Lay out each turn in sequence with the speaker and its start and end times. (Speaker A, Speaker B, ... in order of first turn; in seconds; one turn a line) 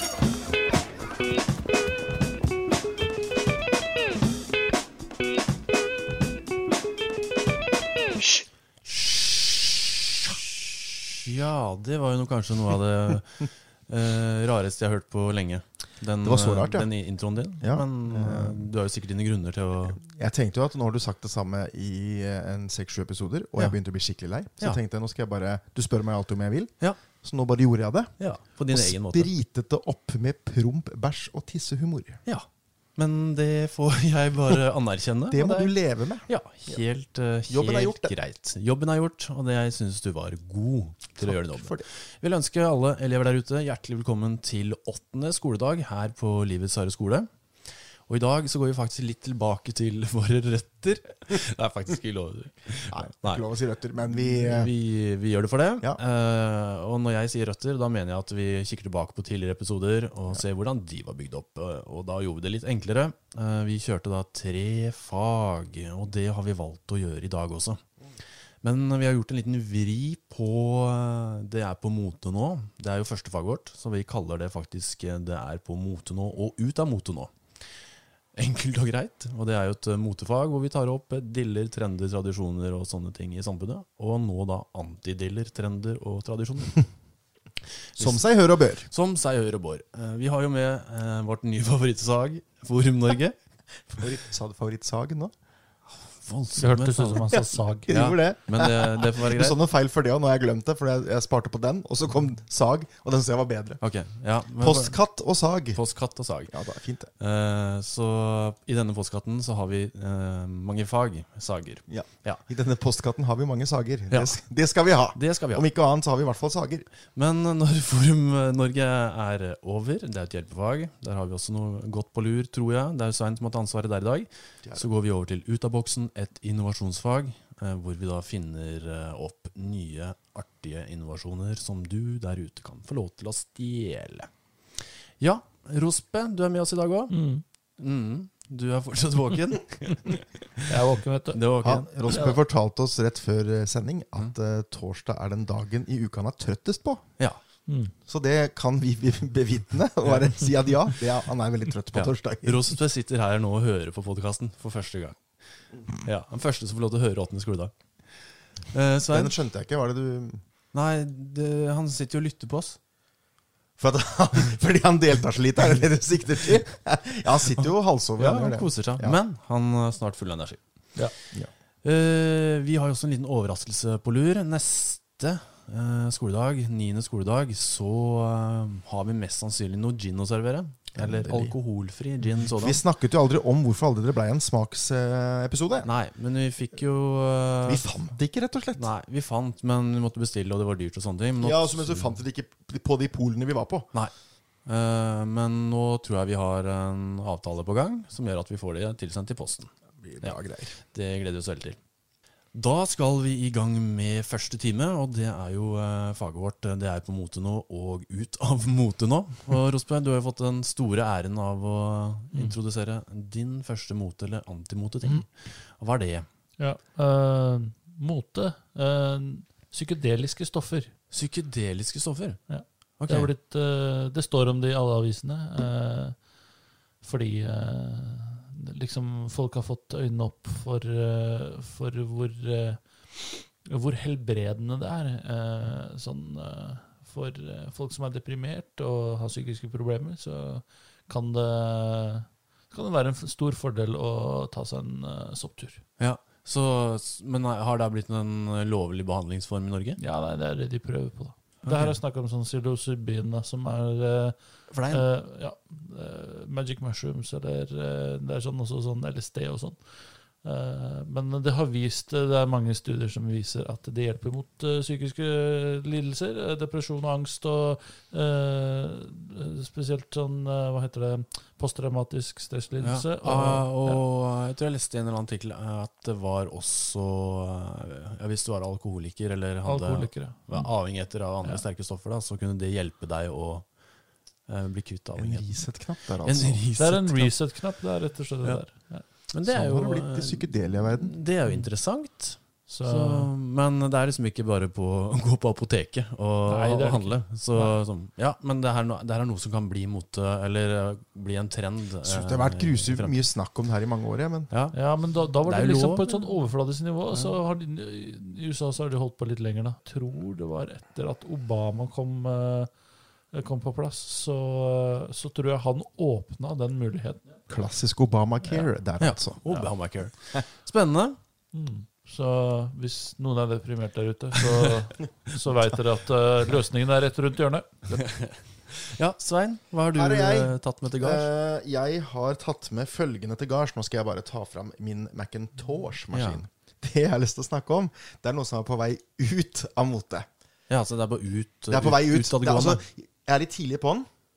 Speaker A: 8.8-20.0
Speaker B: 16.2-16.9
Speaker B: 17.6-18.6
Speaker B: 20.0-28.1
Speaker A: 28.2-29.3
Speaker B: 28.7-32.2
Speaker A: 32.2-35.7
Speaker B: 35.3-36.8
Speaker A: 36.3-47.3
Speaker B: 37.5-38.1
Speaker B: 41.2-41.9
Speaker A: 48.1-53.4
Speaker B: 52.9-54.7
Speaker A: 54.1-67.8
Speaker A: 68.6-77.3
Speaker A: 78.3-86.8
Speaker A: 88.0-88.2
Speaker B: 88.0-88.9
Speaker A: 88.9-93.3
Speaker B: 93.9-95.3
Speaker A: 96.1-97.2
Speaker C: 96.6-97.9
Speaker B: 97.3-103.8
Speaker A: 97.9-99.6
Speaker A: 103.8-105.0
Speaker B: 104.6-105.8
Speaker A: 105.7-106.5
Speaker B: 106.5-107.1
Speaker A: 107.2-112.4
Speaker B: 111.9-116.8
Speaker A: 114.1-114.3
Speaker A: 115.1-115.6
Speaker A: 117.1-134.3
Speaker A: 135.2-137.1
Speaker C: 137.1-137.4
Speaker A: 137.8-140.2
Speaker C: 140.6-141.4
Speaker A: 141.3-142.3
Speaker B: 141.6-147.0
Speaker C: 147.7-147.9
Speaker B: 148.1-152.7
Speaker A: 151.9-155.2
Speaker A: 156.0-157.7
Speaker A: 158.7-159.3
Speaker B: 159.1-160.4
Speaker A: 160.7-162.8
Speaker B: 163.8-169.2
Speaker A: 168.2-170.6
Speaker A: 171.8-182.8
Speaker B: 180.9-181.5
Speaker B: 182.4-185.9
Speaker A: 185.8-187.8
Speaker B: 187.6-188.9
Speaker A: 188.8-192.2
Speaker B: 191.4-193.9
Speaker A: 194.7-199.7
Speaker B: 200.0-200.8
Speaker A: 200.9-201.8
Speaker A: 202.5-216.2
Speaker C: 216.6-220.9
Speaker A: 221.1-222.4
Speaker C: 222.5-226.2
Speaker A: 223.0-223.3
Speaker C: 227.0-245.8
Speaker A: 246.0-250.0
Speaker C: 250.0-254.3
Speaker A: 251.6-251.9
Speaker A: 254.7-255.0
Speaker C: 254.9-259.8
Speaker C: 260.4-274.0
Speaker A: 272.8-283.7
Speaker C: 279.6-280.7
Speaker A: 284.5-285.5
Speaker B: 285.1-286.7
Speaker A: 286.2-287.3
Speaker C: 286.8-289.0
Speaker A: 289.3-303.2
Speaker B: 289.4-291.2
Speaker C: 292.7-293.3
Speaker C: 296.5-297.7
Speaker B: 302.0-304.5
Speaker A: 304.5-304.8
Speaker C: 304.7-312.7
Speaker A: 305.4-306.1
Speaker C: 313.3-317.3
Speaker B: 317.5-319.4
Speaker A: 319.0-321.2
Speaker C: 321.5-328.0
Speaker A: 324.4-324.7
Speaker A: 327.9-331.3
Speaker B: 329.9-340.2
Speaker A: 336.1-336.4
Speaker A: 340.7-342.8
Speaker B: 341.7-344.1